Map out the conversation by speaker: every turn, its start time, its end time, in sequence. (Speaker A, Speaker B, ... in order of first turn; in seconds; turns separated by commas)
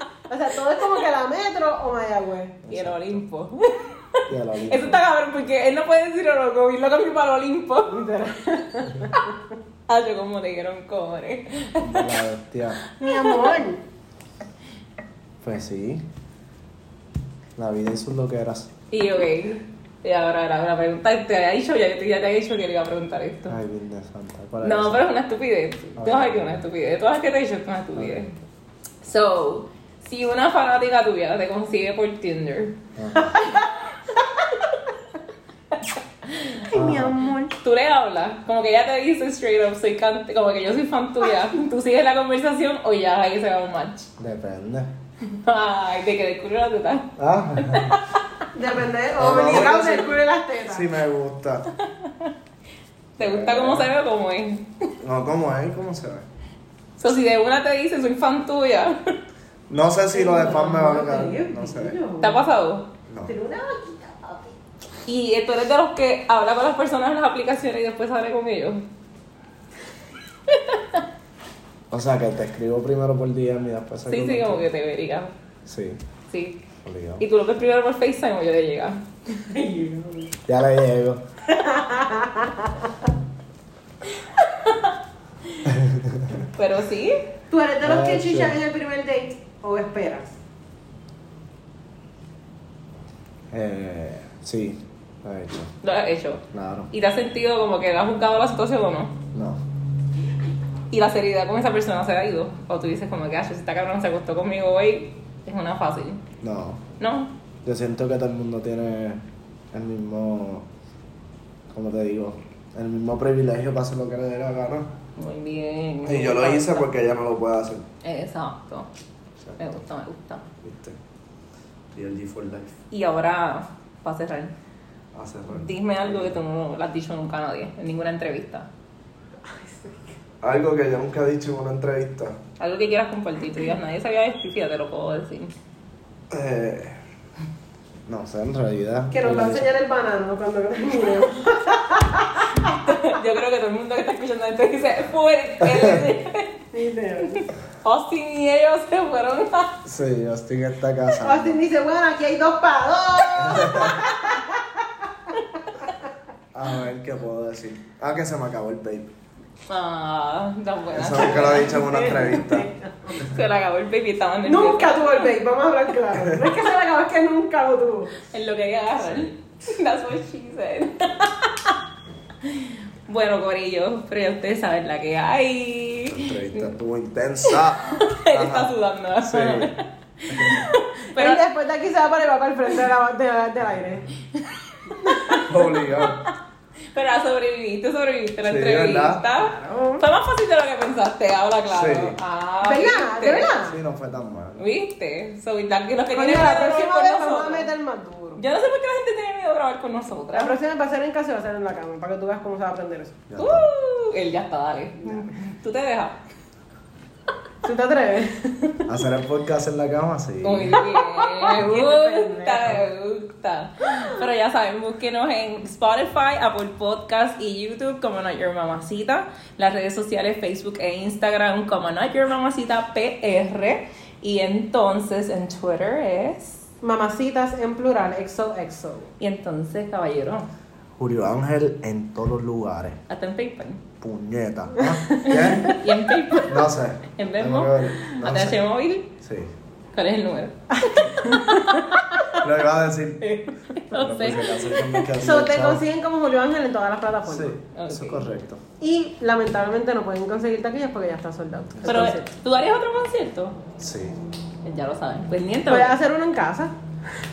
Speaker A: 0.3-2.6, Speaker B: 2.6-3.2, Speaker C: 2.7-8.0, Speaker B: 4.3-5.0, Speaker A: 7.8-9.3, Speaker C: 9.9-12.2, Speaker B: 11.8-12.8, Speaker C: 12.8-13.6, Speaker A: 13.0-13.8, Speaker B: 15.4-16.0, Speaker B: 17.6-18.7, Speaker C: 18.9-23.6, Speaker B: 23.5-25.0, Speaker C: 24.6-28.3, Speaker B: 26.0-26.6, Speaker C: 29.0-32.8, Speaker B: 33.0-33.4, Speaker C: 33.3-33.8, Speaker C: 36.3-36.7, Speaker A: 36.7-37.5, Speaker B: 36.7-37.1, Speaker C: 37.5-44.1, Speaker B: 44.2-44.9, Speaker C: 45.2-48.2, Speaker B: 47.2-48.0, Speaker A: 48.5-50.9, Speaker B: 49.2-51.7, Speaker C: 52.0-52.3, Speaker B: 53.2-53.9, Speaker C: 53.2-54.9, Speaker B: 55.0-56.2, Speaker C: 57.0-59.1, Speaker B: 59.7-62.0, Speaker A: 60.1-62.4, Speaker C: 62.2-62.9, Speaker B: 63.1-63.3, Speaker A: 63.2-64.5, Speaker C: 65.0-68.8, Speaker C: 70.5-71.0, Speaker B: 71.9-74.7, Speaker C: 74.1-75.3, Speaker B: 75.7-76.0, Speaker C: 76.3-76.6, Speaker B: 76.8-77.2, Speaker C: 77.2-79.1, Speaker A: 79.4-80.3, Speaker B: 80.5-81.2, Speaker A: 81.5-82.9, Speaker C: 84.1-84.9, Speaker B: 85.7-86.5, Speaker C: 86.5-87.2, Speaker A: 87.5-90.4, Speaker B: 87.8-88.6, Speaker B: 93.5-95.7, Speaker C: 95.8-99.2, Speaker B: 96.5-96.9, Speaker B: 99.3-99.6, Speaker C: 100.9-106.2, Speaker B: 106.4-106.8, Speaker C: 107.0-107.3, Speaker B: 107.6-110.7, Speaker B: 111.7-114.9, Speaker C: 115.2-116.9, Speaker B: 116.0-117.9, Speaker C: 118.0-118.9, Speaker B: 119.4-119.7, Speaker C: 119.6-120.4, Speaker B: 120.6-121.0, Speaker B: 121.9-122.8, Speaker C: 122.9-124.5, Speaker B: 125.1-126.4, Speaker C: 125.5-128.7, Speaker A: 129.4-130.1, Speaker B: 130.4-132.4, Speaker C: 132.6-135.5, Speaker B: 136.3-137.0, Speaker B: 138.1-139.7, Speaker A: 139.1-142.8, Speaker C: 142.6-146.6, Speaker B: 145.6-146.0, Speaker A: 146.7-147.4, Speaker C: 147.8-149.7, Speaker B: 149.8-151.6, Speaker A: 151.2-155.9, Speaker B: 153.4-154.1, Speaker B: 156.5-159.1, Speaker C: 159.7-162.4, Speaker B: 160.9-162.7, Speaker A: 161.7-163.1, Speaker C: 163.1-165.2, Speaker A: 164.4-168.1, Speaker B: 166.2-166.4, Speaker C: 168.2-171.7, Speaker B: 169.0-169.3, Speaker C: 172.4-176.6, Speaker B: 176.1-179.7, Speaker C: 177.4-181.4, Speaker B: 180.3-180.7, Speaker A: 181.2-184.1, Speaker C: 184.3-186.3, Speaker A: 185.0-185.4, Speaker B: 185.4-186.2, Speaker C: 186.9-193.6, Speaker B: 188.4-189.2, Speaker A: 189.4-190.0, Speaker B: 191.7-192.2, Speaker A: 192.6-193.8, Speaker B: 193.6-194.7, Speaker C: 194.6-197.7, Speaker A: 196.1-198.4, Speaker C: 198.4-200.6, Speaker A: 200.3-203.2, Speaker B: 203.3-203.7, Speaker C: 203.4-206.2, Speaker A: 207.6-208.8, Speaker B: 208.9-210.8, Speaker C: 210.4-226.7, Speaker A: 210.8-212.8, Speaker A: 226.8-229.1, Speaker C: 229.2-230.5, Speaker B: 231.0-233.0, Speaker C: 233.1-233.8, Speaker B: 234.0-235.8, Speaker A: 235.1-235.8, Speaker C: 235.2-239.1, Speaker B: 236.4-238.6, Speaker B: 239.2-239.5, Speaker C: 239.9-242.3, Speaker A: 240.7-242.2, Speaker B: 242.4-245.8, Speaker C: 243.2-245.1, Speaker A: 245.2-247.6, Speaker B: 247.3-248.6, Speaker C: 247.7-248.2, Speaker A: 248.8-252.3, Speaker C: 251.8-253.6, Speaker B: 253.8-254.2, Speaker C: 254.6-255.9, Speaker A: 255.7-256.7